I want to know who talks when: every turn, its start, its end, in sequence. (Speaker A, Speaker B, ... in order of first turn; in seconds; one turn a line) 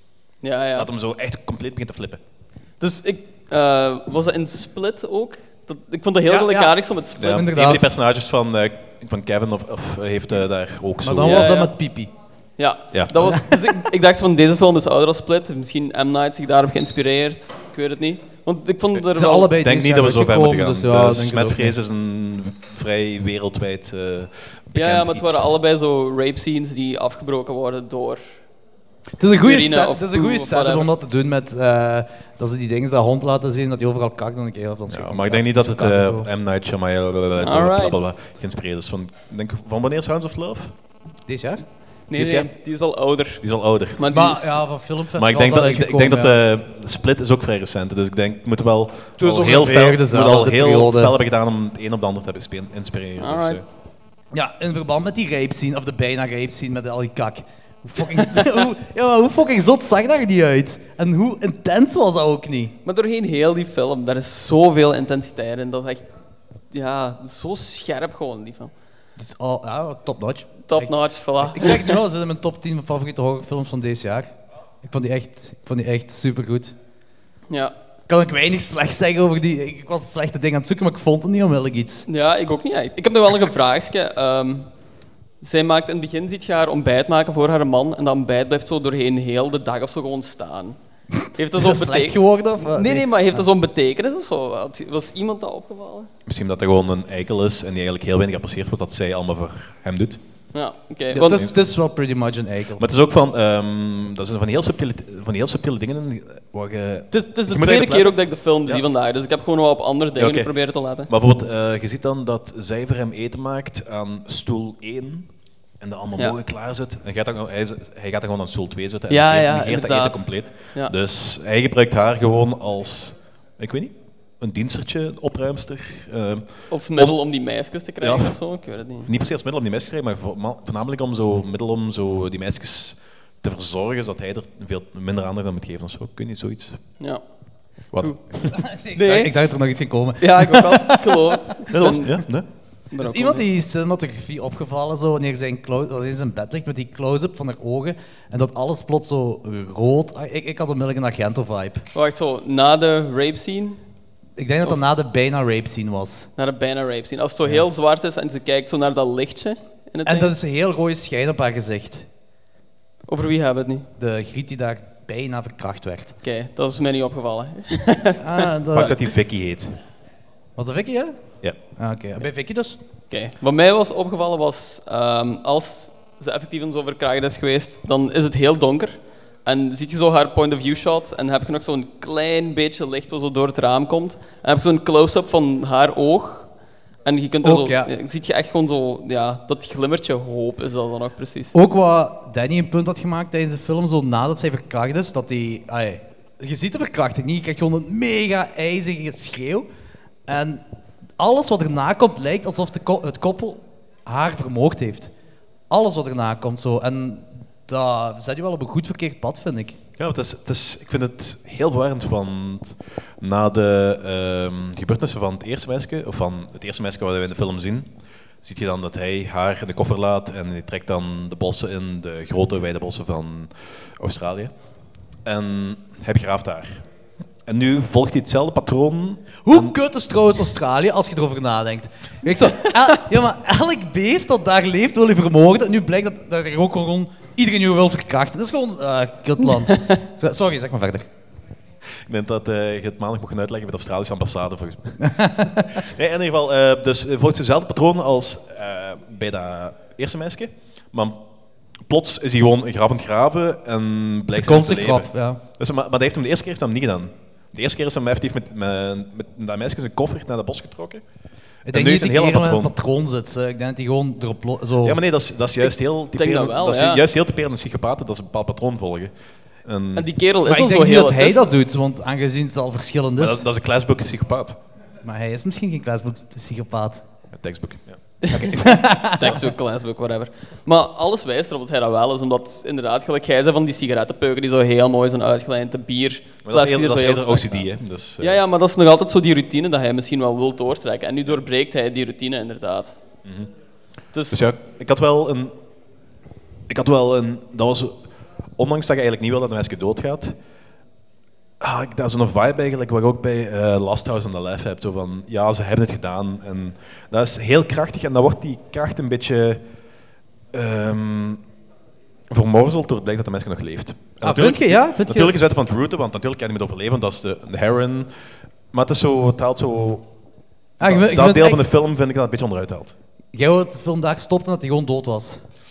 Speaker A: 0.4-0.9
Speaker B: 0.8-2.2
Speaker A: 2.8-7.5
Speaker C: 6.3-7.9
Speaker B: 7.2-11.5
Speaker C: 11.0-12.1
Speaker A: 11.2-11.7
Speaker A: 12.6-19.6
Speaker B: 12.9-13.3
Speaker C: 19.1-21.8
Speaker B: 19.6-25.5
Speaker A: 24.8-28.2
Speaker C: 29.2-36.3
Speaker A: 29.4-30.9
Speaker B: 34.9-40.7
Speaker A: 37.4-38.0
Speaker C: 41.3-41.6
Speaker A: 42.1-43.4
Speaker B: 42.1-42.5
Speaker B: 43.4-44.0
Speaker A: 44.0-44.6
Speaker C: 44.1-46.4
Speaker B: 45.2-53.6
Speaker C: 49.2-51.1
Speaker A: 53.2-53.6
Speaker C: 54.3-62.8
Speaker A: 62.9-66.0
Speaker A: 66.7-68.7
Speaker C: 69.2-76.8
Speaker A: 70.7-72.0
Speaker A: 77.5-77.7
Speaker C: 78.1-82.1
Speaker A: 82.1-84.7
Speaker A: 85.4-90.8
Speaker A: 91.4-96.1
Speaker C: 91.5-93.4
Speaker B: 96.3-100.2
Speaker A: 100.5-101.5
Speaker C: 101.1-102.8
Speaker B: 102.8-108.8
Speaker A: 107.1-111.1
Speaker B: 110.2-110.5
Speaker B: 111.1-115.3
Speaker B: 115.8-127.2
Speaker A: 119.1-120.9
Speaker A: 126.7-129.1
Speaker B: 128.0-128.4
Speaker B: 129.0-136.8
Speaker B: 137.9-138.5
Speaker C: 138.5-141.4
Speaker A: 139.0-139.4
Speaker A: 140.2-142.2
Speaker B: 141.7-142.5
Speaker A: 142.9-143.4
Speaker C: 143.0-151.8
Speaker A: 151.9-153.8
Speaker C: 154.4-156.3
Speaker A: 156.4-160.3
Speaker C: 160.1-162.1
Speaker A: 163.1-163.9
Speaker C: 164.0-166.2
Speaker A: 166.2-168.9
Speaker C: 168.2-169.0
Speaker B: 168.7-169.8
Speaker C: 170.6-171.2
Speaker C: 171.8-172.8
Speaker A: 173.1-178.9
Speaker A: 179.4-186.5
Speaker A: 187.1-191.5
Speaker C: 187.4-187.9
Speaker C: 191.5-199.7
Speaker C: 200.3-200.6
Speaker C: 201.2-205.1
Speaker C: 205.7-209.8
Speaker B: 210.0-217.9
Speaker B: 218.4-224.5
Speaker B: 225.2-226.8
Speaker B: 227.5-229.7
Speaker C: 229.4-241.1
Speaker B: 242.1-251.2
Speaker C: 245.0-245.7
Speaker B: 251.9-261.0
Speaker C: 254.3-255.4
Speaker C: 261.7-265.0
Speaker B: 261.7-262.7
Speaker B: 264.8-269.1
Speaker A: 265.6-267.0
Speaker B: 269.6-270.1
Speaker A: 269.9-271.5
Speaker C: 270.5-273.4
Speaker B: 273.2-274.6
Speaker C: 275.0-277.0
Speaker B: 277.3-279.4
Speaker A: 278.2-287.7
Speaker C: 278.6-279.4
Speaker B: 286.4-288.4
Speaker A: 288.2-292.9
Speaker B: 293.2-293.5
Speaker A: 294.1-294.4
Speaker B: 294.3-295.5
Speaker B: 296.7-298.0
Speaker B: 298.6-300.4
Speaker B: 301.6-309.6
Speaker B: 310.5-311.4
Speaker B: 312.3-318.1
Speaker C: 314.2-315.3
Speaker B: 318.7-320.1
Speaker C: 320.8-321.6
Speaker B: 320.8-322.9
Speaker C: 323.3-325.4